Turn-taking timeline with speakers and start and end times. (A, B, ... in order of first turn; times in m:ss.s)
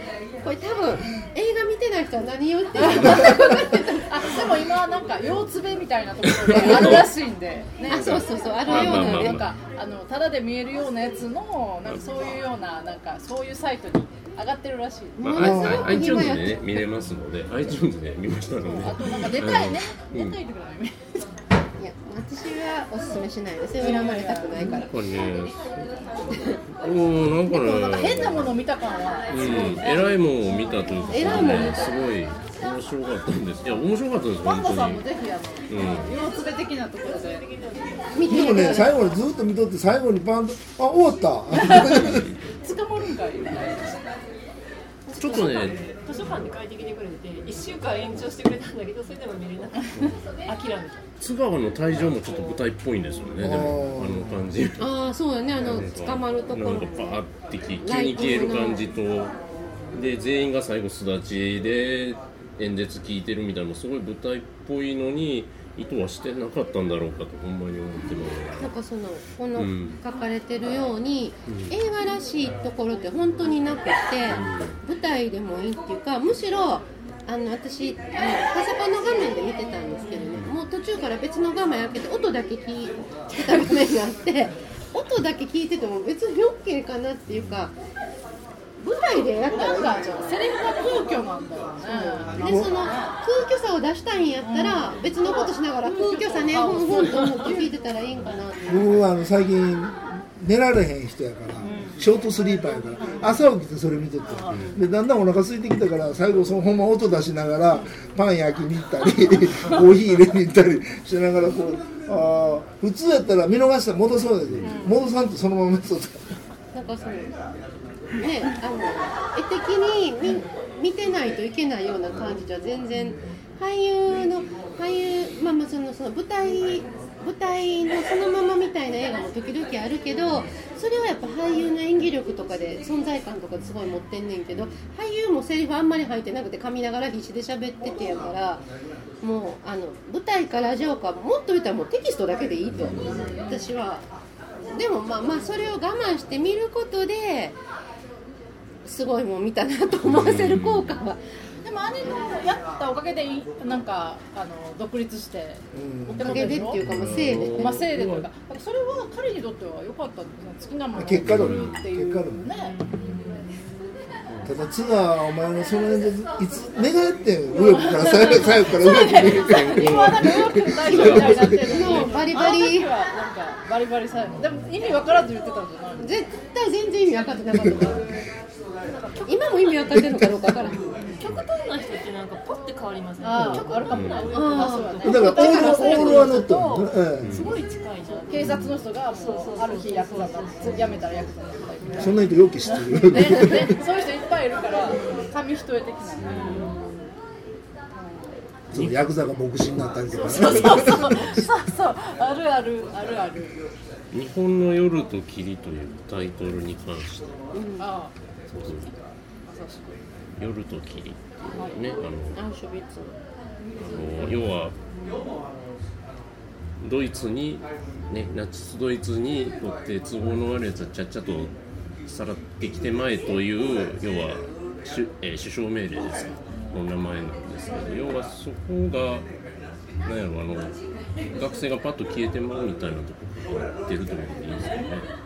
0:00.4-0:04.4 A
0:02.8-0:15.5 B
0:06.3-0:07.1 C
0:07.9-0:09.5 A
0:07.9-0:09.6 C
0:15.2-0:20.4 C
0:15.2-0:16.8 A
0:15.4-0:16.0 D
0:18.6-0:21.2 B
0:21.8-0:25.0 A
0:23.8-0:24.8 B
0:24.6-0:28.6 C
0:26.3-0:26.6 A
0:27.5-0:31.7 B
0:29.3-0:35.1 C
0:29.3-0:29.7 A
0:31.1-0:32.0 A
0:34.4-0:37.5 B
0:35.7-0:36.2 C
0:37.5-0:38.2 E
0:38.1-0:39.1 A
0:38.3-0:42.3 D
0:41.5-0:44.0 B
0:41.9-0:42.4 C
0:45.1-0:45.8 A
0:45.2-0:45.8 C
0:46.0-0:51.0 E
0:50.0-0:50.2 C
0:51.2-0:55.0 C
0:53.4-0:54.5 D
0:54.8-0:57.2 A
0:55.6-0:59.3 C
0:57.8-0:58.9 A
0:59.9-1:08.7 C
1:08.6-1:27.8 A
1:09.5-1:10.0 C
1:11.5-1:11.8 C
1:14.3-1:14.8 C
1:28.8-1:30.4 A
1:29.6-1:33.2 B
1:31.8-1:38.6 A
1:32.4-1:32.8 D
1:34.4-1:37.8 B
1:38.7-1:56.3 D
1:41.6-1:42.0 B
1:43.0-1:43.4 B
1:44.3-1:44.8 B
1:54.6-1:55.0 B
1:56.7-1:57.4 A
1:58.2-2:18.6 A
2:14.5-2:14.8 C
2:19.2-2:24.1 A
2:22.7-2:23.3 C
2:23.3-2:23.6 B
2:24.7-2:27.6 A
2:28.8-2:31.2 A
2:30.0-2:30.9 C
2:31.6-2:42.8 B
2:35.7-2:37.3 D
2:36.2-2:37.8 A
2:36.8-2:38.3 C
2:40.9-2:42.5 D
2:41.2-2:41.8 C
2:44.4-2:51.8 D
2:47.5-2:56.2 B
2:49.1-2:52.1 C
2:51.5-2:52.9 A
2:56.0-2:58.1 A
2:59.2-3:00.9 A
2:59.9-3:00.5 D
3:01.0-3:01.3 B
3:01.2-3:11.2 E
3:03.2-3:06.5 B
3:03.4-3:03.6 D
3:03.9-3:04.3 C
3:04.3-3:06.4 A
3:05.0-3:07.6 D
3:07.2-3:07.6 C
3:08.1-3:17.1 B
3:08.4-3:08.7 C
3:12.0-3:13.8 D
3:16.2-3:16.8 C
3:16.2-3:16.8 E
3:17.9-3:18.4 B
3:18.7-3:21.4 D
3:18.7-3:19.0 C
3:20.1-3:23.6 B
3:24.1-3:27.4 C
3:27.5-3:27.9 A
3:27.8-3:30.0 B
3:28.6-3:28.9 C
3:30.4-3:32.4 C
3:31.6-3:31.8 B
3:32.4-3:33.1 A
3:33.8-3:34.8 C
3:33.8-3:34.4 B
3:36.8-3:49.2 C
3:50.0-3:50.8 C
3:51.3-3:55.1 C